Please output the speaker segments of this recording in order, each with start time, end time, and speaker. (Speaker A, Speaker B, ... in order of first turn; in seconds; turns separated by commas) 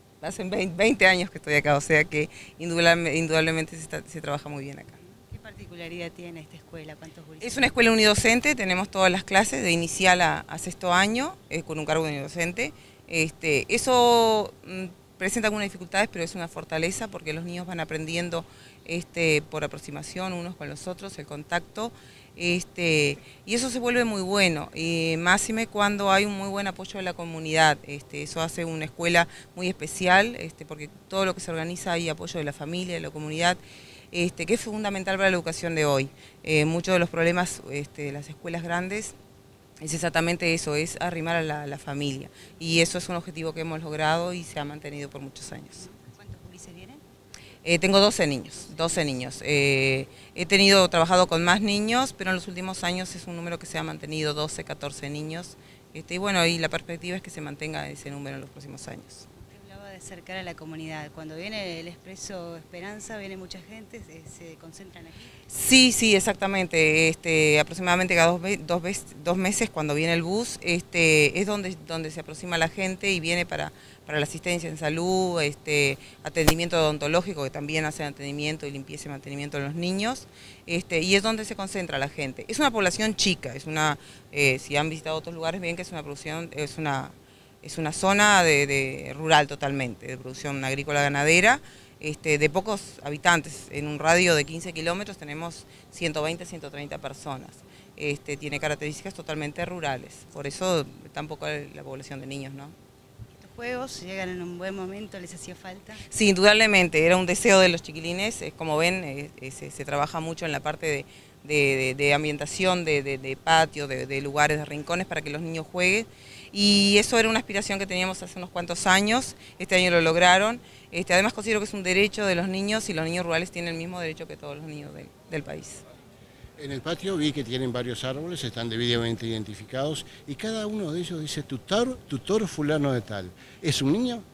Speaker A: 0.2-5.0, Speaker B: 5.0-7.7, Speaker A: 7.4-33.6, Speaker A: 34.1-39.1, Speaker A: 39.8-45.9, Speaker B: 45.8-47.0, Speaker A: 47.6-59.3, Speaker B: 59.5-65.4, Speaker A: 65.5-102.7, Speaker B: 103.4-106.0, Speaker A: 106.0-125.8, Speaker C: 126.6-134.2